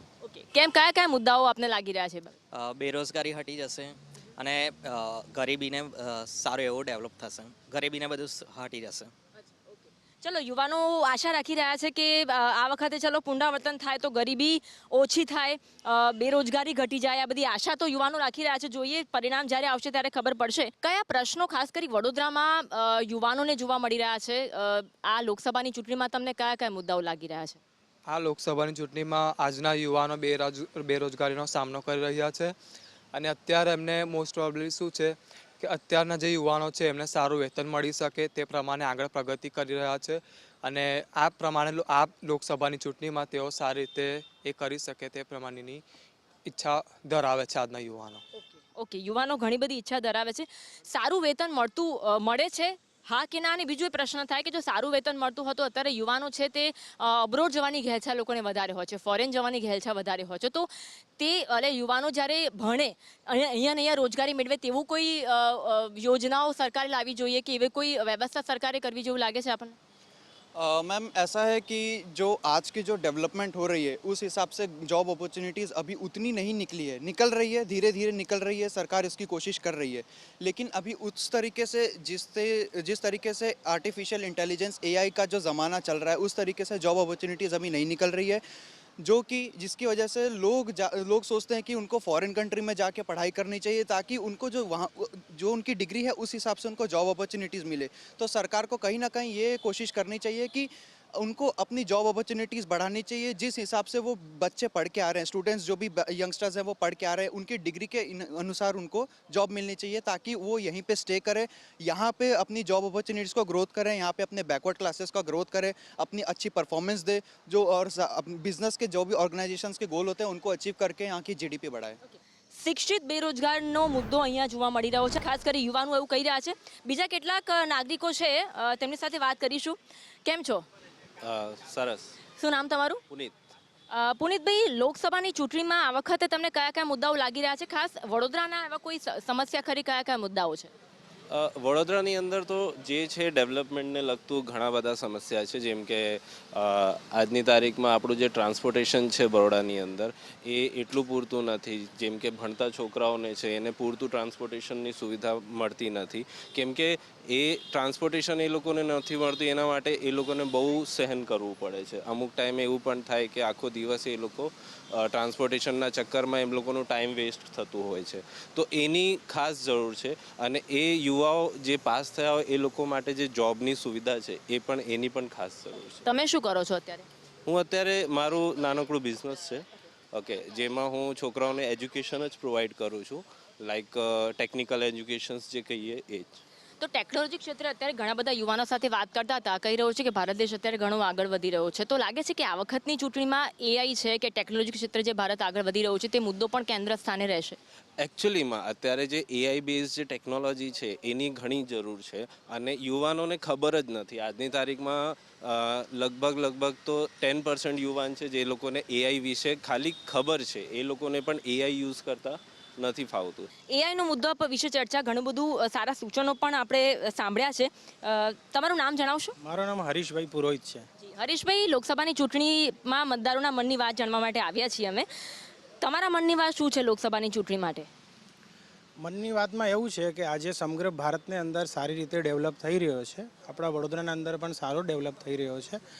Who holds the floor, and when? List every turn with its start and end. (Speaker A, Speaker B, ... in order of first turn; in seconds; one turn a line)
Speaker A: 0.2-2.3
Speaker B: 2.5-9.1
Speaker A: 10.2-27.6
Speaker C: 28.1-32.5
Speaker C: 33.1-45.8
Speaker C: 46.5-48.2
Speaker A: 48.7-69.8
Speaker D: 70.5-88.4
Speaker D: 89.0-122.0
Speaker A: 122.0-130.7
Speaker E: 131.2-132.1
Speaker A: 132.4-133.0
Speaker A: 133.9-140.7
Speaker E: 141.3-176.0
Speaker A: 176.1-177.1
Speaker E: 177.4-186.4
Speaker A: 186.8-197.6
Speaker E: 198.0-213.5
Speaker A: 213.7-219.3
Speaker F: 219.4-220.8
Speaker A: 221.0-225.1
Speaker A: 225.8-227.9
Speaker F: 229.0-235.8